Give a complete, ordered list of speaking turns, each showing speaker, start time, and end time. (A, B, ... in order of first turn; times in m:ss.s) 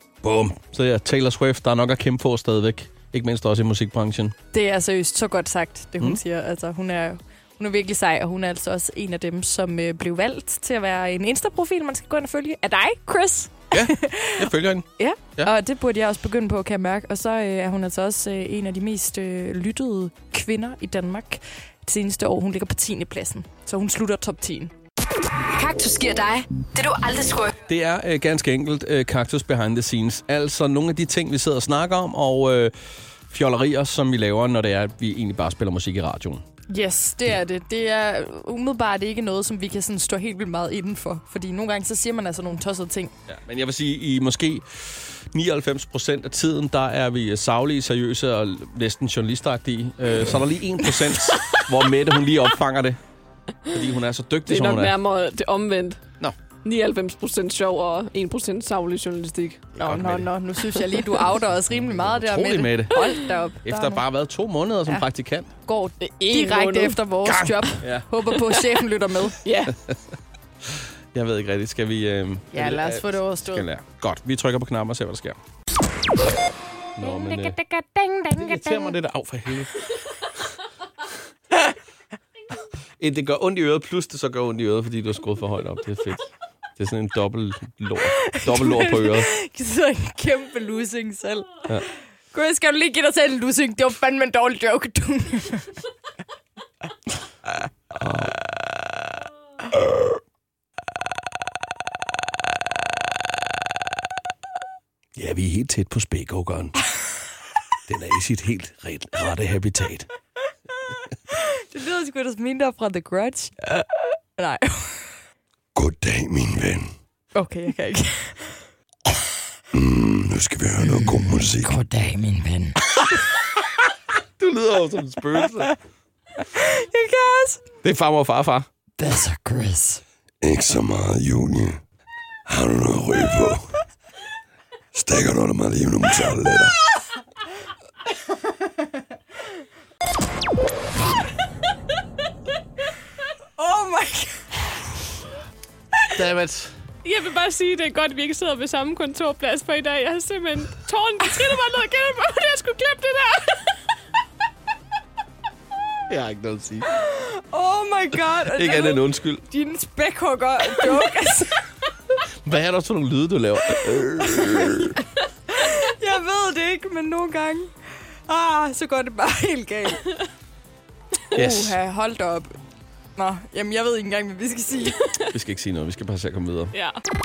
0:00.2-0:04.3 A
0:04.5-0:24.7 B
0:13.7-0:15.5 A
0:25.5-0:27.5 C
0:27.7-0:32.7 A
0:33.3-0:36.4 A
0:36.7-0:43.1 B
0:43.3-0:53.0 A
0:53.7-0:54.9 A
0:54.5-0:56.1 D
0:56.6-0:59.7 D
0:59.8-1:04.0 B
0:59.8-1:00.3 A
1:01.6-1:03.1 A
1:03.6-1:05.5 A
1:05.6-1:09.4 B
1:06.0-1:07.0 D
1:07.2-1:08.1 A
1:09.4-1:09.8 D
1:09.7-1:10.0 A
1:10.7-1:15.4 A
1:12.5-1:13.6 B
1:17.0-1:17.6 A
1:17.6-1:18.8 D
1:18.3-1:20.2 A
1:23.0-1:29.3 A
1:28.2-1:31.7 B
1:32.3-1:35.7 B
1:37.9-1:38.3 A
1:39.8-1:40.1 A
1:45.2-1:46.8 A
1:47.9-1:50.1 A
1:51.3-1:55.1 B
1:55.8-1:56.8 E
1:57.3-1:58.6 B
1:59.7-2:01.7 E
2:01.6-2:02.7 B
2:03.0-2:03.3 A
2:04.4-2:05.7 A
2:06.4-2:07.6 B
2:07.8-2:08.7 A
2:09.0-2:09.8 B
2:10.4-2:11.8 E
2:12.5-2:13.7 E
2:14.9-2:16.7 E
2:23.6-2:24.6 B
2:26.1-2:26.7 A
2:27.0-2:33.7 D
2:36.1-2:36.9 A
2:37.0-2:41.6 B
2:38.4-2:39.4 A
2:42.4-2:45.0 A
2:44.3-2:44.9 B
2:45.5-2:47.7 B
2:48.3-2:50.1 B
2:51.3-2:52.5 B
2:51.3-2:51.8 A
2:53.2-2:55.1 B
2:55.3-2:56.7 A
2:56.7-2:57.0 D